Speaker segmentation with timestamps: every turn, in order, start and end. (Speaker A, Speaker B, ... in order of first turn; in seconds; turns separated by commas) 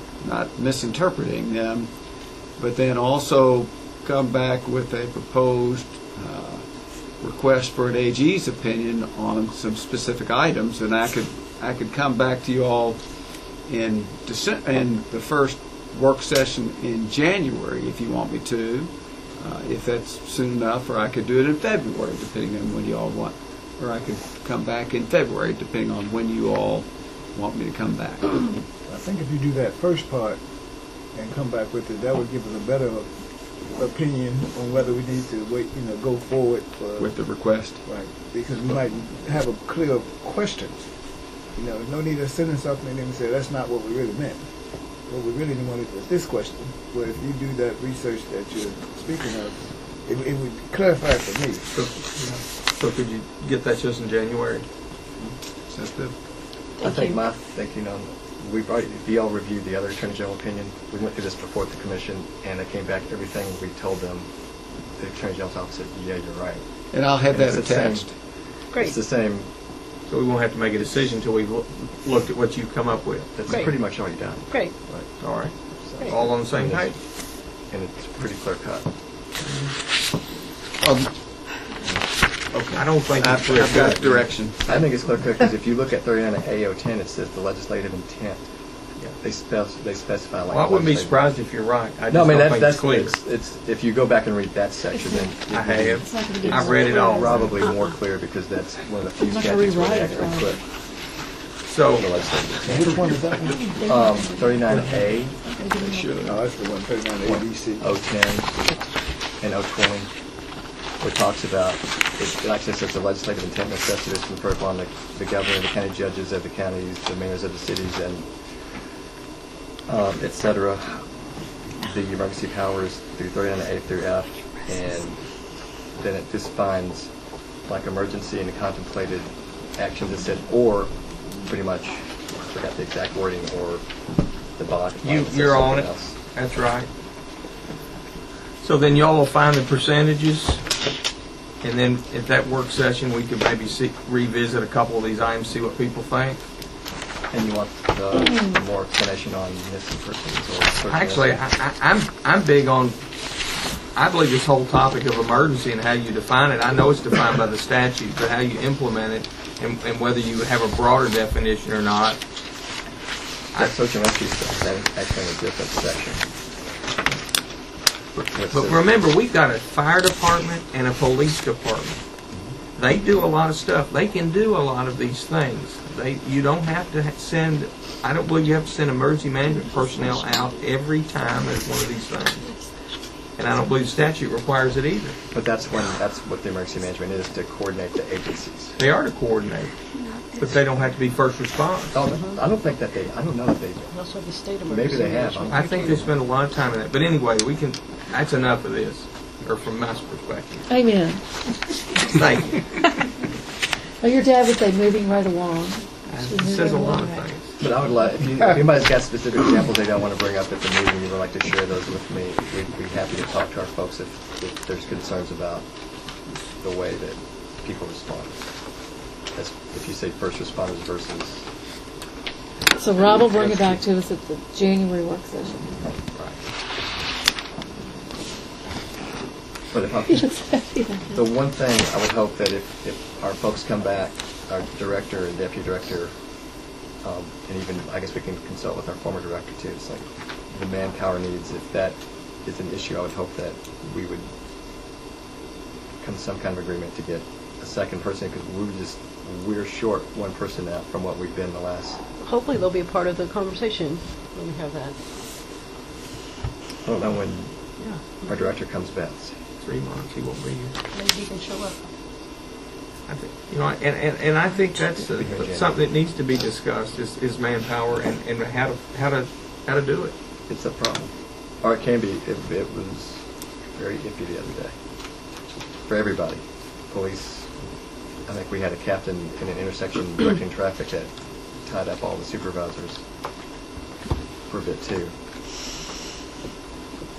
Speaker A: 0.2-1.9, Speaker A: 2.6-6.7, Speaker A: 7.2-28.6, Speaker B: 28.9-30.4, Speaker B: 31.1-33.1, Speaker B: 33.7-37.1, Speaker A: 37.0-37.8, Speaker B: 37.8-40.8, Speaker B: 41.5-44.4, Speaker B: 45.1-51.6, Speaker C: 51.7-54.6, Speaker A: 55.2-56.1, Speaker D: 56.8-57.2, Speaker E: 56.8-64.3, Speaker E: 65.0-66.6, Speaker A: 66.9-68.1, Speaker E: 67.3-68.1, Speaker D: 68.7-69.0, Speaker E: 68.7-69.5, Speaker C: 70.1-73.4, Speaker E: 73.3-75.1, Speaker D: 73.5-73.7, Speaker D: 74.5-74.7, Speaker C: 75.2-76.9, Speaker E: 75.8-77.0, Speaker E: 77.7-78.9, Speaker C: 79.4-79.7, Speaker A: 80.8-81.1, Speaker A: 82.5-84.6, Speaker C: 82.7-84.3, Speaker E: 84.6-88.4, Speaker E: 89.2-91.2, Speaker C: 90.5-93.2, Speaker E: 92.1-100.6, Speaker F: 94.9-95.3, Speaker C: 95.5-97.4, Speaker F: 96.0-97.6, Speaker F: 99.2-100.6, Speaker C: 101.6-102.9, Speaker E: 102.0-103.0, Speaker B: 102.7-103.6, Speaker F: 103.4-106.2, Speaker E: 103.8-105.3, Speaker C: 105.8-106.4, Speaker B: 106.2-107.8, Speaker E: 107.2-108.6, Speaker E: 109.4-110.1, Speaker E: 111.0-118.3, Speaker E: 119.9-121.0, Speaker E: 121.8-125.2, Speaker E: 126.0-127.1, Speaker E: 127.7-133.8, Speaker E: 134.6-136.2, Speaker C: 135.0-136.9, Speaker C: 138.6-140.6, Speaker C: 141.6-146.4, Speaker E: 147.3-151.4, Speaker C: 150.9-153.0, Speaker C: 153.9-162.2, Speaker E: 163.5-166.2, Speaker E: 168.1-168.8, Speaker C: 168.5-172.0, Speaker C: 172.8-182.5, Speaker C: 183.4-185.2, Speaker E: 185.3-188.8, Speaker C: 188.8-189.7, Speaker C: 190.4-192.0, Speaker E: 191.9-193.9, Speaker D: 192.1-192.4, Speaker D: 193.9-196.0, Speaker E: 194.7-196.0, Speaker C: 195.5-200.7, Speaker F: 200.7-201.2, Speaker C: 201.9-202.9, Speaker F: 204.0-207.3, Speaker C: 206.1-207.6, Speaker E: 207.6-215.7, Speaker E: 216.6-218.4, Speaker E: 219.3-221.5, Speaker F: 222.8-225.8, Speaker C: 223.3-223.8, Speaker E: 229.7-230.5, Speaker F: 230.1-231.3, Speaker E: 231.1-236.1, Speaker E: 237.0-244.3, Speaker E: 246.0-252.0, Speaker D: 252.2-255.0, Speaker E: 256.8-257.5, Speaker E: 258.2-259.3, Speaker C: 259.6-260.8, Speaker D: 260.9-261.9, Speaker C: 263.1-270.1, Speaker E: 265.1-265.8, Speaker E: 270.5-273.2, Speaker E: 273.7-274.7, Speaker E: 275.9-277.5, Speaker E: 278.2-281.1, Speaker E: 281.6-283.0, Speaker E: 284.5-285.1